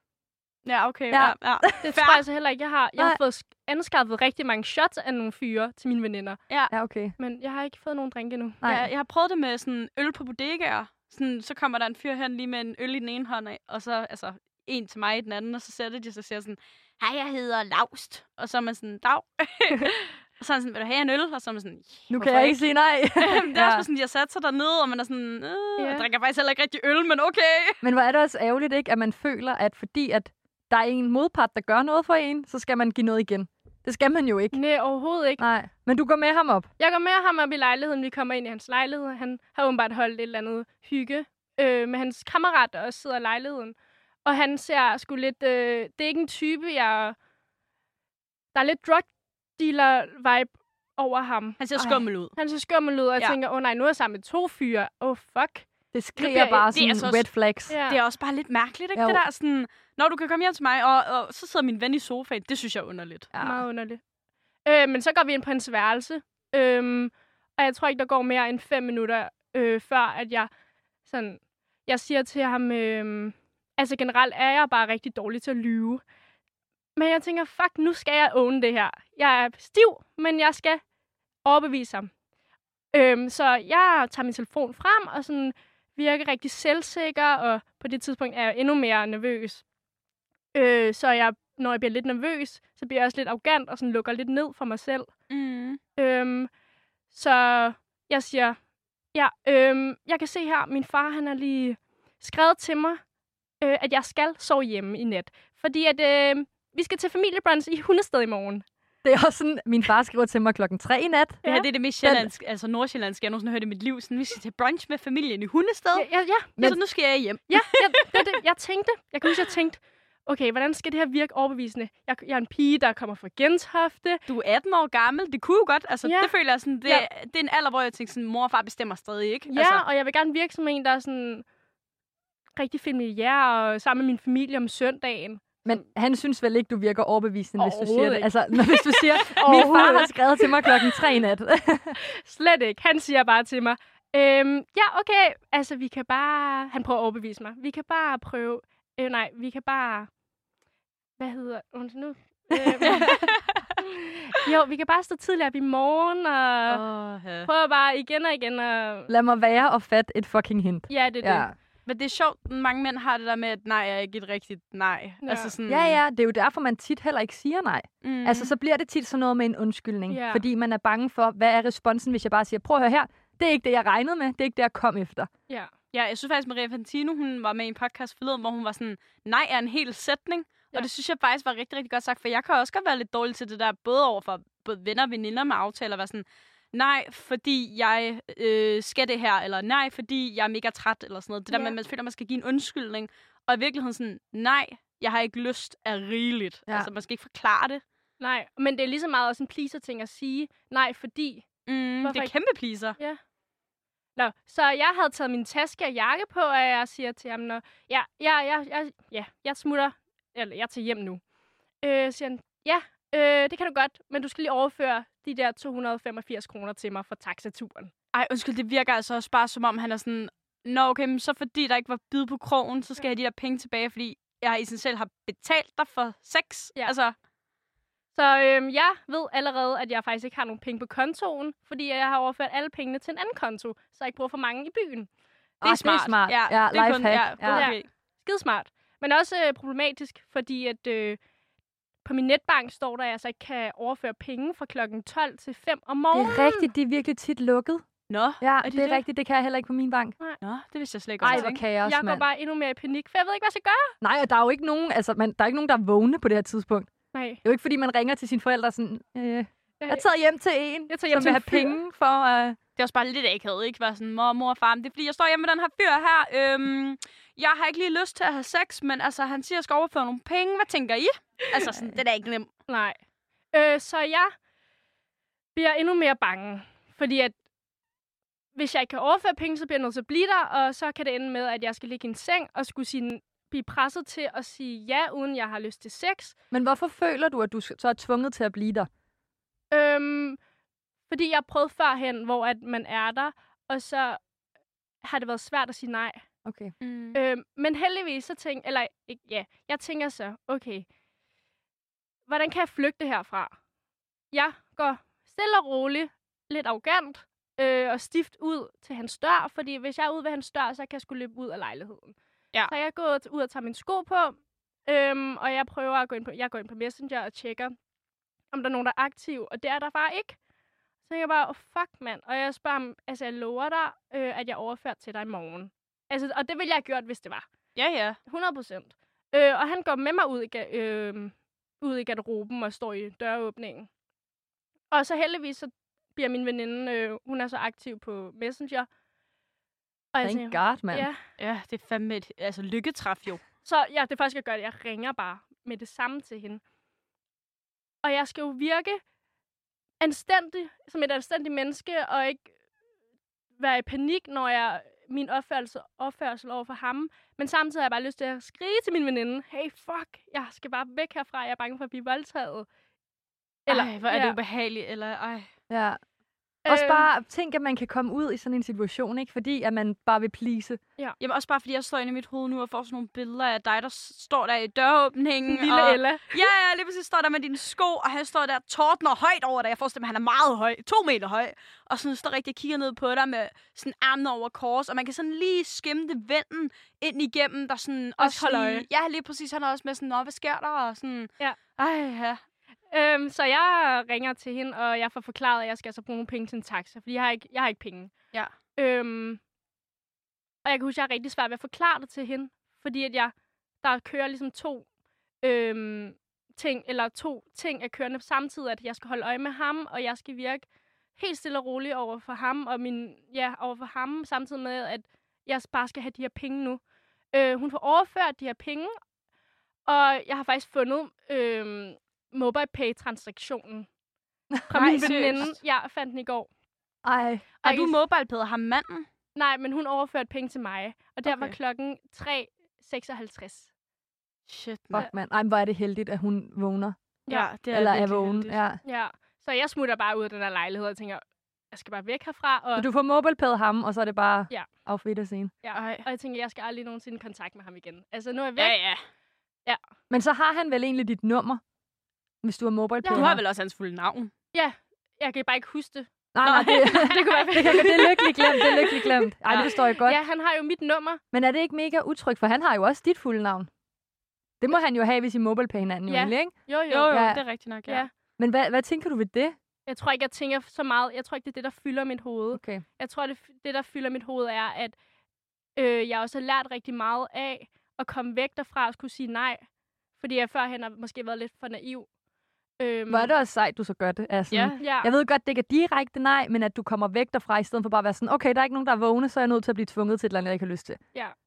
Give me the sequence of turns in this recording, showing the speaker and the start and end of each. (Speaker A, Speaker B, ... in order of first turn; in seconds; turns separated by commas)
Speaker A: 0.7-2.2, Speaker B: 1.1-1.9, Speaker C: 1.8-6.4, Speaker B: 6.7-7.2, Speaker C: 7.2-8.6, Speaker B: 8.6-8.9, Speaker A: 8.6-27.8, Speaker B: 22.1-23.9, Speaker C: 25.8-26.1, Speaker B: 27.8-34.6, Speaker C: 34.5-35.4, Speaker B: 35.4-36.7, Speaker C: 36.8-47.2, Speaker C: 48.5-55.7, Speaker A: 51.6-52.4, Speaker B: 55.9-57.8, Speaker C: 56.2-56.7, Speaker A: 56.6-57.3, Speaker C: 57.7-58.0, Speaker A: 57.9-63.3, Speaker B: 59.0-59.2, Speaker B: 63.3-63.6, Speaker C: 63.4-64.0, Speaker C: 64.7-70.5, Speaker C: 71.1-76.0, Speaker C: 77.0-80.8, Speaker C: 81.5-82.1, Speaker C: 82.9-89.6, Speaker C: 90.5-95.1, Speaker A: 95.3-95.8, Speaker C: 96.0-96.5, Speaker C: 97.1-98.6, Speaker C: 99.1-103.0, Speaker C: 103.6-108.7, Speaker B: 109.0-111.4, Speaker A: 111.4-118.3, Speaker B: 112.0-112.3, Speaker C: 116.0-116.6, Speaker C: 117.5-124.2, Speaker A: 124.3-129.8, Speaker C: 126.0-126.3, Speaker C: 129.5-131.4, Speaker C: 132.6-135.8, Speaker B: 135.7-142.0, Speaker C: 137.6-141.0, Speaker C: 142.0-150.1, Speaker C: 151.2-156.8, Speaker B: 152.7-153.3, Speaker A: 152.9-153.4, Speaker A: 156.7-157.5, Speaker C: 157.5-159.1, Speaker B: 159.1-161.5, Speaker C: 160.9-161.5, Speaker A: 161.9-166.0, Speaker C: 165.2-165.6, Speaker B: 165.7-175.3, Speaker A: 168.0-168.5, Speaker C: 170.1-170.4, Speaker A: 175.9-197.8, Speaker C: 191.5-191.8, Speaker C: 198.2-201.5, Speaker A: 201.7-203.0, Speaker C: 202.0-202.3, Speaker C: 204.2-211.2, Speaker C: 211.8-217.9, Speaker A: 218.1-227.2, Speaker C: 228.2-235.1, Speaker B: 235.6-237.7, Speaker A: 235.6-237.9, Speaker C: 237.5-241.2, Speaker C: 242.1-246.7, Speaker B: 246.1-247.9, Speaker A: 248.1-249.0, Speaker B: 248.4-250.2, Speaker A: 250.4-251.6, Speaker B: 251.2-252.2, Speaker C: 251.2-253.9, Speaker B: 254.0-256.9, Speaker C: 257.1-257.4, Speaker B: 257.4-262.6, Speaker C: 259.8-260.1, Speaker C: 260.9-261.8, Speaker A: 262.8-272.5, Speaker C: 272.7-273.0, Speaker C: 273.5-274.3, Speaker C: 275.6-277.4, Speaker C: 278.6-286.3, Speaker B: 286.5-288.9, Speaker C: 289.7-290.4, Speaker C: 291.1-294.2, Speaker C: 295.0-296.2, Speaker B: 296.4-296.7, Speaker A: 296.8-297.2, Speaker C: 297.1-300.9, Speaker C: 302.3-303.5, Speaker C: 304.3-312.2, Speaker C: 312.7-317.7, Speaker C: 318.5-320.4, Speaker C: 321.1-327.4, Speaker A: 327.8-328.2, Speaker C: 328.3-333.9, Speaker C: 334.9-338.9, Speaker C: 340.1-341.2, Speaker B: 340.2-341.1, Speaker A: 341.4-343.4, Speaker C: 343.6-346.6, Speaker C: 348.0-349.0, Speaker C: 350.0-352.5, Speaker C: 353.6-362.7, Speaker C: 363.7-364.4, Speaker A: 363.7-365.5, Speaker B: 365.7-366.0, Speaker C: 366.6-367.1, Speaker B: 366.7-370.8, Speaker A: 371.2-392.4, Speaker C: 375.5-376.4, Speaker C: 388.2-388.9, Speaker C: 392.9-398.1, Speaker C: 398.8-399.4, Speaker C: 400.6-404.9, Speaker C: 405.4-416.8, Speaker C: 417.3-419.0, Speaker C: 419.9-423.9, Speaker B: 424.5-425.1, Speaker C: 424.7-426.5, Speaker A: 424.7-425.5, Speaker B: 427.0-427.6, Speaker A: 427.6-429.1, Speaker C: 427.7-428.0, Speaker C: 429.4-433.7, Speaker A: 431.2-431.6, Speaker A: 434.5-435.1, Speaker B: 434.9-437.0, Speaker A: 437.3-438.6, Speaker B: 437.7-438.8, Speaker C: 438.9-442.9, Speaker B: 442.8-445.5, Speaker C: 445.6-448.8, Speaker A: 445.7-446.1, Speaker A: 448.6-449.0, Speaker B: 450.1-451.6, Speaker B: 452.4-453.4, Speaker C: 453.0-453.4, Speaker A: 453.1-454.3, Speaker C: 454.5-456.1, Speaker B: 456.3-460.2, Speaker A: 456.4-457.2, Speaker C: 456.7-461.2, Speaker A: 459.4-459.7, Speaker B: 461.3-463.7, Speaker B: 464.6-466.5, Speaker C: 466.1-467.2, Speaker A: 466.9-468.1, Speaker B: 467.1-467.4, Speaker B: 468.4-469.6, Speaker C: 469.9-474.9, Speaker B: 472.6-472.8, Speaker C: 475.8-479.6, Speaker C: 480.2-482.1, Speaker C: 482.8-483.3, Speaker B: 483.1-491.0, Speaker A: 484.5-484.8, Speaker C: 484.8-485.1